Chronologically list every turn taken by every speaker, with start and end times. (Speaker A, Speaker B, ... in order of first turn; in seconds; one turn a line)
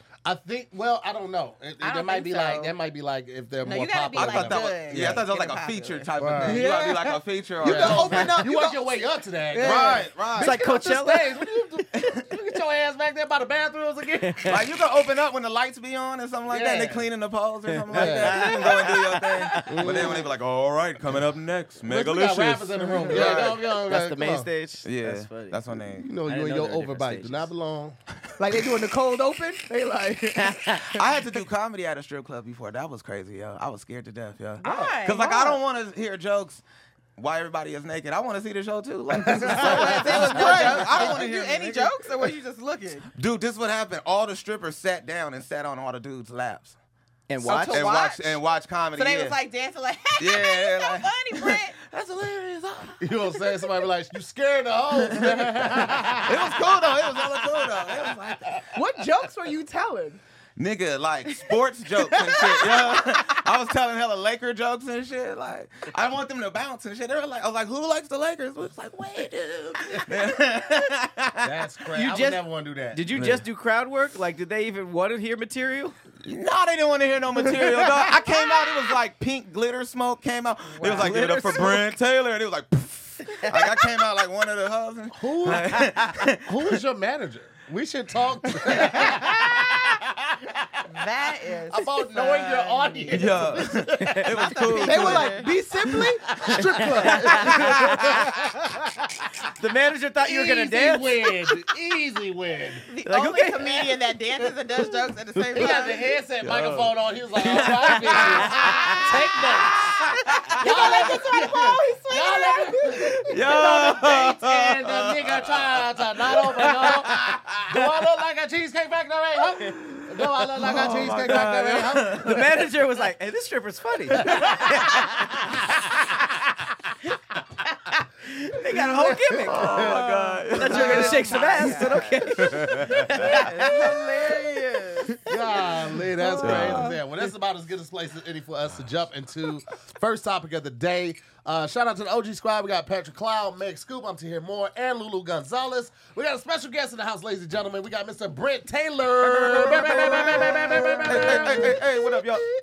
Speaker A: 0.2-5.2
Speaker B: 1.8-2.7
Speaker B: 3.6-6.1
Speaker C: 4.1-8.4
Speaker A: 6.2-6.7
Speaker D: 6.4-10.5
Speaker A: 7.6-14.6
Speaker E: 8.1-8.3
Speaker C: 9.6-10.6
Speaker E: 10.4-11.5
Speaker E: 14.2-14.6
Speaker C: 14.4-23.6
Speaker A: 16.5-17.1
Speaker E: 17.7-20.1
Speaker A: 17.9-18.5
Speaker D: 19.6-20.1
Speaker A: 19.6-20.2
Speaker A: 21.8-24.5
Speaker E: 22.8-27.5
Speaker C: 24.8-26.1
Speaker A: 25.9-28.0
Speaker D: 28.4-31.2
Speaker C: 30.8-36.6
Speaker B: 34.6-35.4
Speaker D: 34.6-35.6
Speaker C: 37.2-41.2
Speaker A: 39.1-41.8
Speaker B: 39.5-43.1
Speaker D: 39.7-41.3
Speaker C: 43.1-46.8
Speaker E: 47.3-47.8
Speaker B: 47.4-48.4
Speaker C: 47.7-49.4
Speaker B: 48.9-51.8
Speaker C: 50.2-53.0
Speaker A: 53.0-58.8
Speaker C: 56.2-58.6
Speaker D: 58.7-60.2
Speaker C: 60.6-71.6
Speaker D: 61.5-63.1
Speaker A: 71.4-73.4
Speaker E: 71.9-76.0
Speaker C: 73.1-73.4
Speaker C: 76.2-86.7
Speaker B: 80.7-81.2
Speaker E: 80.8-81.9
Speaker A: 85.1-85.9
Speaker A: 86.5-90.8
Speaker B: 90.9-93.6
Speaker A: 91.7-94.2
Speaker C: 93.1-95.5
Speaker B: 94.1-95.6
Speaker D: 94.8-97.6
Speaker A: 96.3-99.3
Speaker E: 97.0-97.6
Speaker C: 97.4-98.3
Speaker E: 99.6-101.3
Speaker A: 100.2-102.8
Speaker B: 102.9-106.1
Speaker E: 103.0-104.1
Speaker E: 104.7-105.7
Speaker A: 105.5-122.6
Speaker C: 106.4-110.6
Speaker E: 107.4-109.1
Speaker B: 110.1-113.2
Speaker C: 113.2-117.7
Speaker C: 120.0-122.7
Speaker E: 122.2-125.3
Speaker A: 124.2-126.0
Speaker E: 128.2-134.4
Speaker A: 128.5-130.0
Speaker C: 129.5-131.5
Speaker D: 130.4-132.2
Speaker B: 130.7-132.2
Speaker C: 132.4-133.2
Speaker A: 132.9-133.5
Speaker D: 133.3-135.3
Speaker B: 133.5-135.1
Speaker A: 135.2-151.8
Speaker D: 136.2-136.9
Speaker C: 136.4-136.9
Speaker C: 149.3-152.4
Speaker D: 149.7-152.4